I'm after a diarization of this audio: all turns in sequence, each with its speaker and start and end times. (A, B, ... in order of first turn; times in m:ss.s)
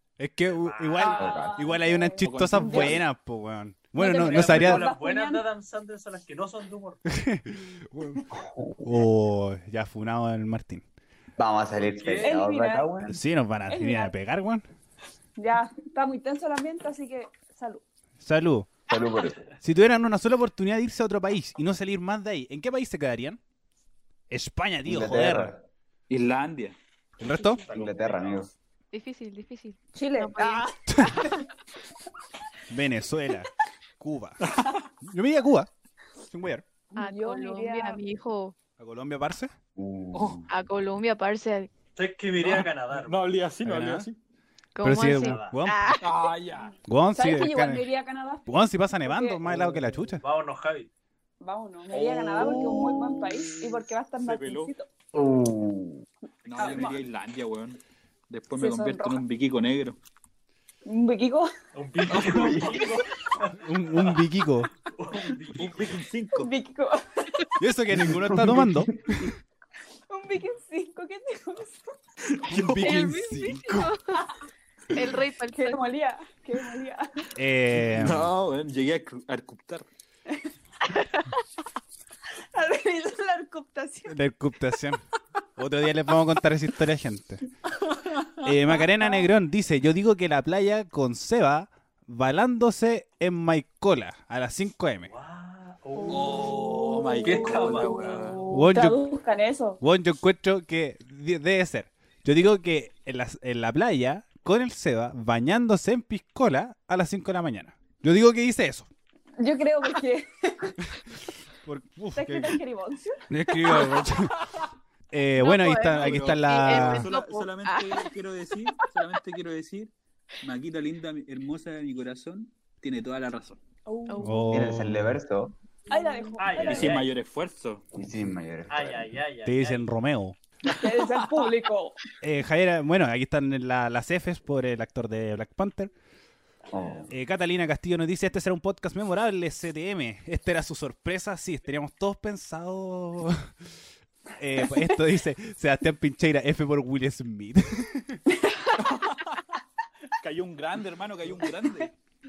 0:00.2-0:04.9 A
0:00.5-0:01.2 B
0:01.0-0:03.0 C
0:01.1-0:01.5 D
0:02.2-0:03.0 E
0:04.0-0:05.4 C
0:04.0-0:07.0 B
0:07.1-0:08.2 A
0:08.3-0:09.0 D
0:08.8-0:10.8 A
0:11.4-0:13.2 D
0:11.8-0:12.4 B
0:12.2-0:12.9 C
0:13.1-0:14.6 A
0:13.7-0:14.1 C
0:15.4-0:17.8 C
0:18.2-0:18.7 A
0:18.9-0:19.4 D
0:19.6-0:23.4 A
0:24.3-0:25.5 A
0:24.8-0:25.6 D
0:26.1-0:26.8 E
0:27.2-0:27.6 A
0:27.4-0:28.5 B
0:27.7-0:28.5 D
0:28.9-0:31.4 F
0:29.9-0:31.2 C
0:30.9-0:31.3 A
0:32.7-0:35.7 A
0:34.4-0:34.9 E
0:36.2-0:36.6 A
0:36.9-0:38.0 C
0:37.0-0:38.6 F
0:38.8-0:39.5 A
0:39.7-0:40.5 D
0:40.1-0:40.4 E
0:40.5-0:41.7 F
0:42.0-0:43.2 B
0:42.4-0:44.2 E
0:43.6-0:44.1 A
0:44.8-0:46.3 F
0:44.8-0:45.9 A
0:45.0-0:45.6 B
0:46.0-0:46.8 E
0:46.6-0:49.4 C
0:46.8-0:47.8 A
0:48.5-0:50.2 A
0:49.5-0:49.8 E
0:50.2-0:50.9 B
0:51.4-0:54.9 C
0:51.9-0:54.7 E
0:55.1-0:56.0 D
0:56.4-1:00.0 E
0:56.5-0:57.0 C
0:58.6-0:59.2 C
1:00.8-1:01.5 C
1:01.7-1:04.2 B
1:02.1-1:02.9 D
1:02.1-1:02.8 E
1:03.6-1:04.7 A
1:04.8-1:05.9 B
1:05.5-1:06.5 E
1:06.4-1:07.6 C
1:07.6-1:09.3 A
1:07.9-1:09.3 D
1:10.1-1:11.9 C
1:12.2-1:13.0 E
1:12.5-1:13.9 A
1:12.8-1:14.2 F
1:14.9-1:15.8 F
1:15.5-1:17.3 C
1:17.4-1:18.3 A
1:17.8-1:19.9 E
1:22.5-1:24.2 C
1:24.1-1:25.0 A
1:25.6-1:27.5 A
1:27.7-1:28.5 E
1:28.4-1:35.1 A
1:35.1-1:38.4 B
1:36.1-1:38.4 E
1:36.1-1:39.8 C
1:38.5-1:39.0 A
1:39.8-1:48.9 A
1:49.4-1:50.8 C
1:51.6-1:52.6 A
1:52.1-1:53.9 C
1:53.3-1:54.3 A
1:55.1-1:57.1 A
1:55.4-1:58.1 F
1:55.9-2:03.6 E
2:03.8-2:04.3 C
2:04.1-2:04.6 F
2:04.2-2:05.2 A
2:04.5-2:05.5 D
2:05.9-2:07.0 C
2:05.9-2:06.4 F
2:06.4-2:07.1 B
2:06.5-2:07.8 E
2:07.9-2:09.1 D
2:08.7-2:09.8 B
2:09.4-2:10.4 A
2:10.7-2:12.0 C
2:11.0-2:11.4 E
2:12.2-2:15.9 A
2:16.7-2:17.1 D
2:16.7-2:17.1 B
2:17.1-2:23.5 A
2:24.4-2:28.2 A
2:28.8-2:29.4 E
2:30.2-2:31.9 E